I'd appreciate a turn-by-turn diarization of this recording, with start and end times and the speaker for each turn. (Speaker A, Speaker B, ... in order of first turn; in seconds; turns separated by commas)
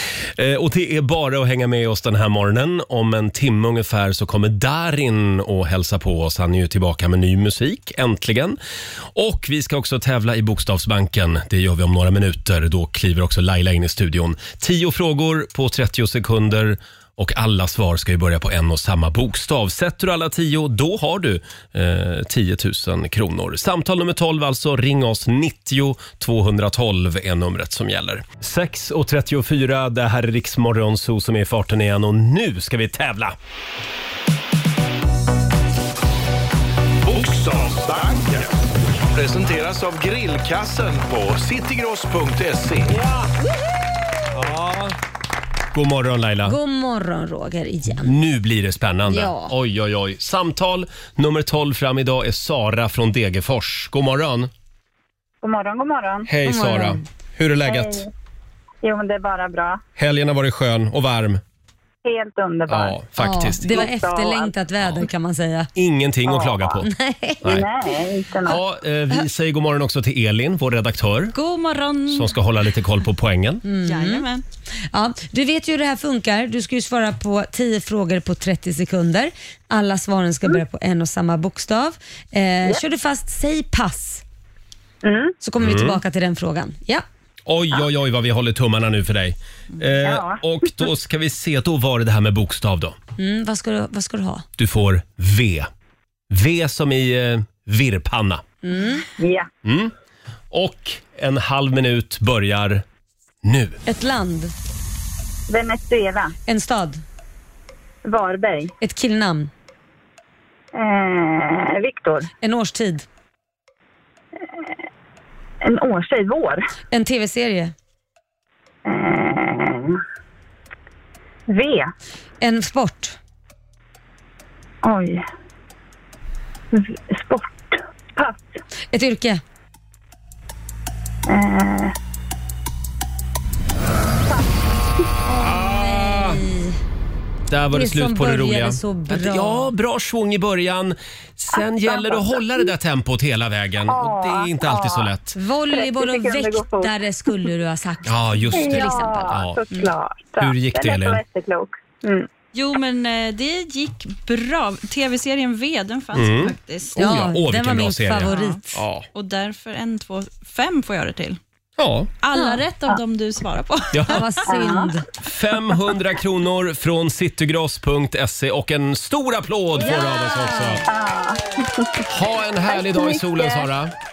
Speaker A: 0.4-8.6, Speaker A: 9.1-33.4, Speaker B: 37.0-38.5, Speaker B: 39.1-43.0, Speaker A: 42.9-43.3, Speaker A: 44.3-45.0, Speaker A: 45.7-46.6, Speaker C: 46.5-48.1, Speaker A: 48.0-54.5, Speaker C: 49.1-49.5, Speaker D: 55.4-56.3, Speaker A: 56.3-58.1, Speaker C: 56.5-57.0, Speaker D: 57.7-58.1, Speaker D: 58.8-59.8, Speaker A: 60.0-61.4, Speaker D: 62.0-63.0, Speaker A: 62.7-63.9, Speaker C: 63.2-65.7, Speaker D: 63.6-64.5, Speaker A: 65.8-66.9, Speaker D: 66.3-66.7, Speaker C: 66.8-67.7, Speaker D: 67.5-68.6, Speaker A: 68.5-71.3, Speaker E: 71.3-72.3, Speaker A: 72.1-73.6, Speaker C: 73.7-74.2, Speaker E: 73.8-74.4, Speaker C: 74.9-84.2, Speaker D: 85.0-85.3, Speaker C: 85.4-87.0, Speaker A: 85.6-86.0, Speaker A: 87.5-93.0, Speaker D: 90.0-90.4, Speaker C: 93.2-94.5, Speaker A: 94.6-95.7, Speaker A: 96.3-98.4, Speaker C: 98.6-99.1, Speaker D: 99.2-99.5, Speaker A: 99.6-99.9, Speaker A: 100.5-102.8, Speaker A: 103.4-103.8, Speaker C: 103.9-104.5, Speaker D: 105.5-106.3, Speaker C: 106.5-107.0, Speaker D: 108.0-108.7, Speaker C: 108.8-109.5, Speaker D: 110.8-112.3, Speaker C: 112.4-113.1, Speaker D: 115.6-116.6, Speaker C: 116.9-117.7, Speaker D: 118.9-120.0, Speaker D: 121.5-121.9, Speaker C: 122.4-123.2, Speaker D: 124.8-125.2, Speaker D: 126.7-128.6, Speaker C: 128.9-129.4, Speaker D: 131.3-131.9, Speaker D: 134.2-134.5, Speaker C: 135.3-136.8, Speaker A: 135.4-136.4, Speaker A: 137.5-145.4, Speaker C: 137.7-139.7, Speaker D: 141.7-142.2, Speaker D: 143.9-145.1, Speaker C: 145.3-149.9, Speaker D: 145.7-146.9, Speaker A: 148.1-149.6, Speaker D: 148.5-152.3, Speaker A: 150.4-151.2, Speaker E: 152.5-157.2, Speaker A: 156.2-159.1, Speaker C: 157.0-158.8, Speaker E: 158.2-158.6, Speaker E: 159.1-161.4, Speaker A: 161.8-162.1, Speaker E: 162.2-164.2, Speaker C: 162.3-162.6, Speaker A: 163.9-164.2, Speaker C: 164.1-165.0, Speaker D: 164.5-164.9, Speaker A: 165.2-170.8, Speaker C: 169.8-170.8, Speaker D: 170.9-172.1, Speaker A: 172.1-173.9, Speaker D: 172.7-173.6